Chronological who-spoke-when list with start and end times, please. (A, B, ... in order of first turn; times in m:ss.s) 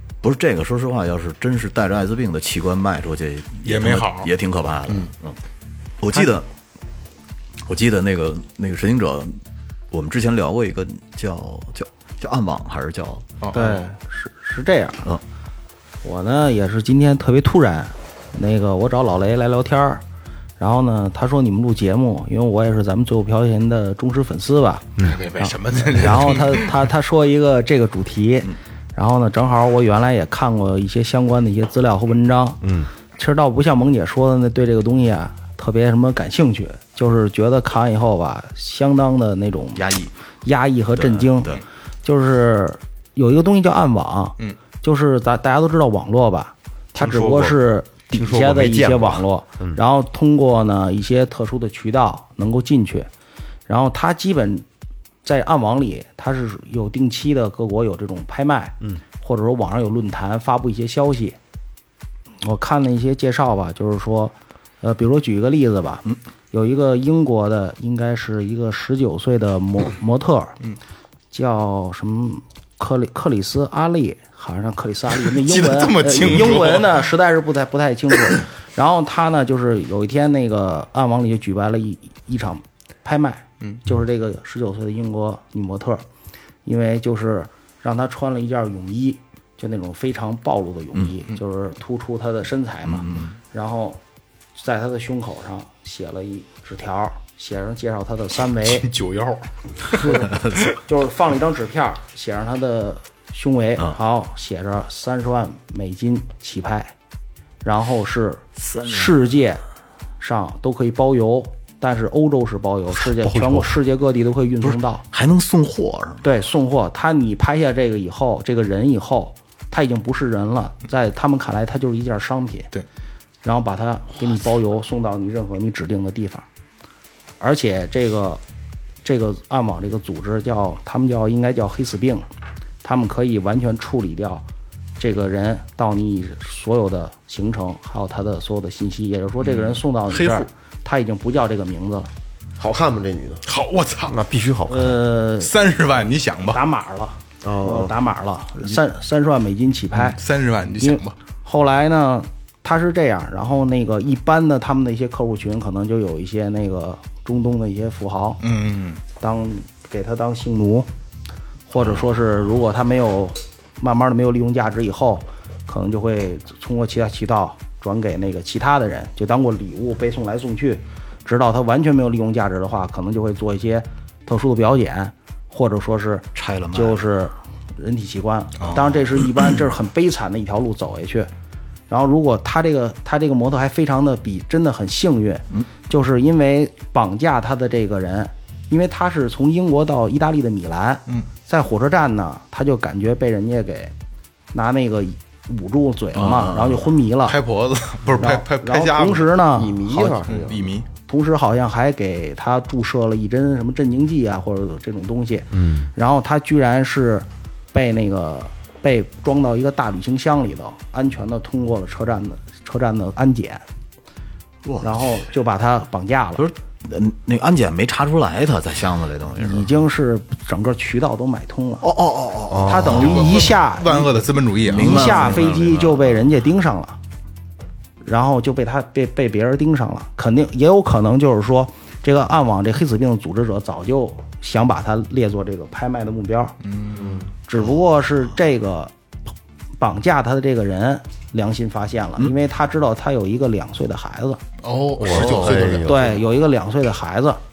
0:00.2-0:05.4 A
0:03.6-0:04.3 B
0:06.0-0:06.5 A
0:07.7-0:09.4 A
0:09.9-0:13.3 A
0:13.4-0:13.9 B
0:13.5-0:15.1 C
0:16.0-0:20.0 C
0:20.6-0:32.6 C
0:25.0-0:26.8 B
0:32.6-0:32.9 D
0:33.2-0:39.8 C
0:39.8-0:40.1 A
0:40.4-0:41.5 C
0:41.0-0:41.6 A
0:42.0-0:53.1 C
0:47.0-0:47.5 B
0:48.1-0:49.8 D
0:53.7-0:54.6 C
0:55.2-1:01.4 C
1:02.4-1:10.6 C
1:11.3-1:26.0 C
1:15.3-1:17.0 B
1:26.6-1:34.0 C
1:32.9-1:33.3 A
1:34.6-1:38.9 C
1:38.7-1:40.1 B
1:40.0-1:46.9 C
1:47.6-1:49.6 C
1:48.6-1:49.2 A
1:50.2-1:55.0 C
1:53.1-1:53.8 D
1:54.6-1:56.2 A
1:56.2-2:02.7 C
2:03.4-2:06.5 C
2:07.4-2:08.4 C
2:09.0-2:12.3 C
2:12.8-2:14.4 C
2:15.0-2:22.1 C
2:19.5-2:20.5 B
2:22.6-2:23.4 E
2:23.5-2:24.2 B
2:24.1-2:25.0 D
2:24.7-2:25.5 C
2:25.4-2:26.6 B
2:26.5-2:30.2 C
2:27.4-2:27.9 E
2:29.9-2:31.2 B
2:30.8-2:38.4 C
2:38.4-2:39.0 B
2:39.2-2:40.9 C
2:41.7-3:01.3 C
2:56.4-2:57.0 A
2:58.6-2:59.0 B
3:01.9-3:13.9 C
3:14.5-3:17.4 C
3:16.2-3:16.9 A
3:17.3-3:19.4 B
3:18.1-3:20.1 C
3:19.5-3:20.7 E
3:20.1-3:20.9 B
3:21.1-3:33.6 C
3:25.5-3:25.9 D
3:34.6-3:35.2 A
3:34.8-3:36.4 C
3:36.4-3:39.7 A
3:39.4-3:41.9 C
3:41.8-3:43.2 A
3:42.5-3:43.0 D
3:42.6-3:44.1 C
3:42.9-3:45.4 B
3:44.6-3:46.3 A
3:44.7-3:47.0 C
3:48.0-3:56.6 C
3:56.6-3:57.2 B
3:57.0-3:57.3 E
3:57.5-3:58.9 C
3:59.8-4:04.4 C
4:04.6-4:05.9 B
4:05.0-4:06.2 D
4:05.1-4:05.7 A
4:05.8-4:07.4 C